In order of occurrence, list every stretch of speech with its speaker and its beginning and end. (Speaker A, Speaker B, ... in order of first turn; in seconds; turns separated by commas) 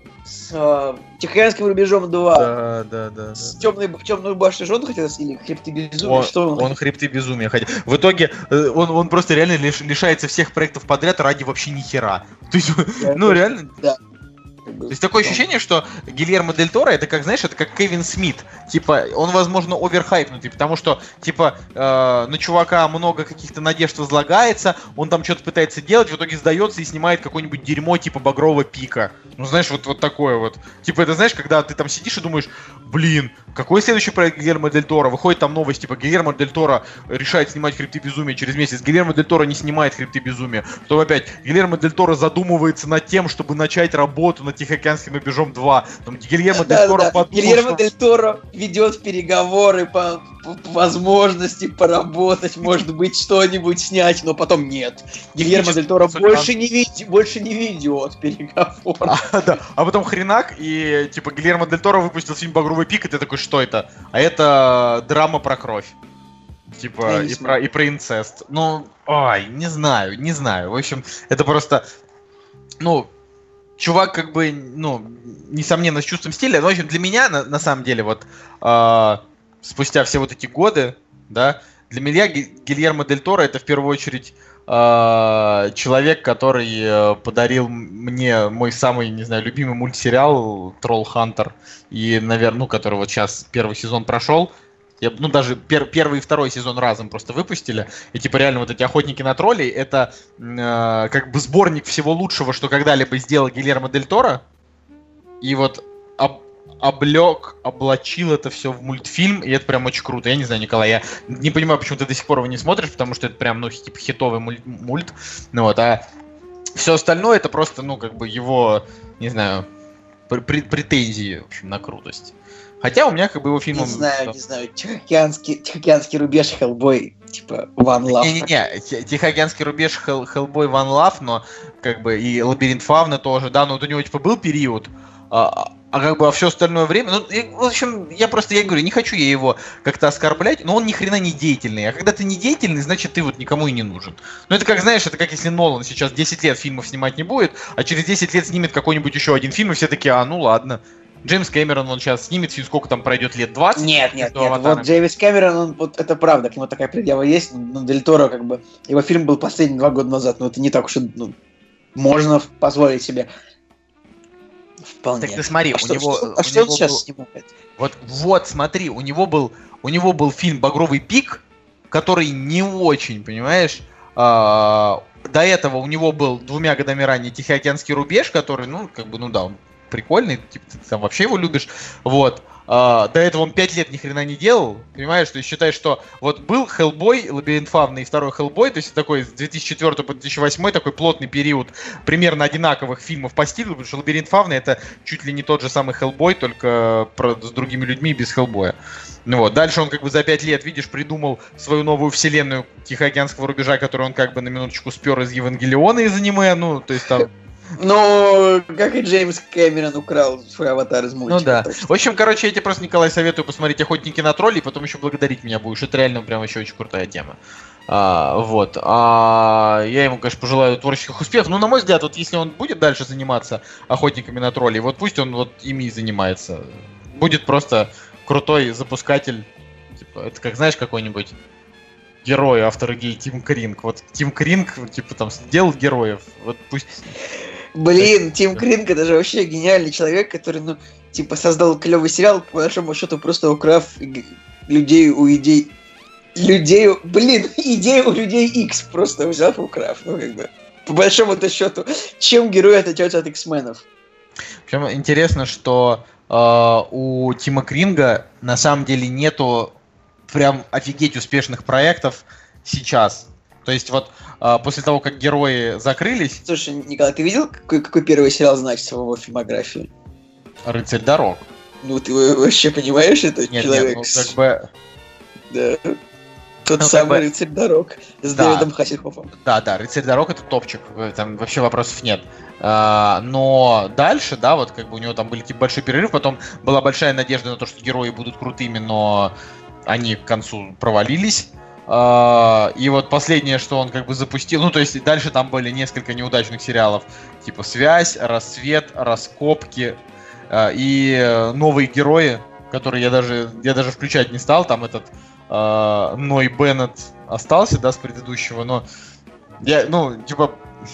Speaker A: 0.3-2.5, Speaker B: 2.3-3.7, Speaker A: 3.4-6.7, Speaker B: 6.0-13.7, Speaker A: 13.0-14.0, Speaker A: 14.7-15.4, Speaker B: 14.9-47.8, Speaker A: 46.5-59.2, Speaker B: 55.4-56.5, Speaker B: 59.1-65.9, Speaker B: 66.7-71.8, Speaker A: 67.0-67.5, Speaker B: 72.8-73.1, Speaker B: 73.8-104.4, Speaker B: 105.4-116.0, Speaker B: 116.8-119.7, Speaker B: 120.3-124.3, Speaker A: 123.7-128.5, Speaker B: 128.1-154.9, Speaker A: 153.8-161.3, Speaker A: 161.9-163.3, Speaker A: 164.9-167.5, Speaker B: 165.2-167.0, Speaker B: 167.8-207.3, Speaker A: 207.8-211.9, Speaker B: 211.3-217.4, Speaker B: 217.9-229.5, Speaker B: 230.0-231.3, Speaker B: 232.2-237.1, Speaker A: 237.8-245.7, Speaker B: 238.0-238.6, Speaker A: 246.4-253.8, Speaker B: 254.7-259.7, Speaker B: 260.3-266.4, Speaker A: 266.4-269.9, Speaker B: 270.6-271.4, Speaker A: 271.8-274.3, Speaker B: 273.5-274.7, Speaker A: 275.5-276.0, Speaker A: 276.7-279.3, Speaker B: 276.8-277.2, Speaker B: 278.3-278.7, Speaker B: 279.4-289.3, Speaker B: 289.9-300.0, Speaker B: 300.5-308.8, Speaker B: 309.6-310.6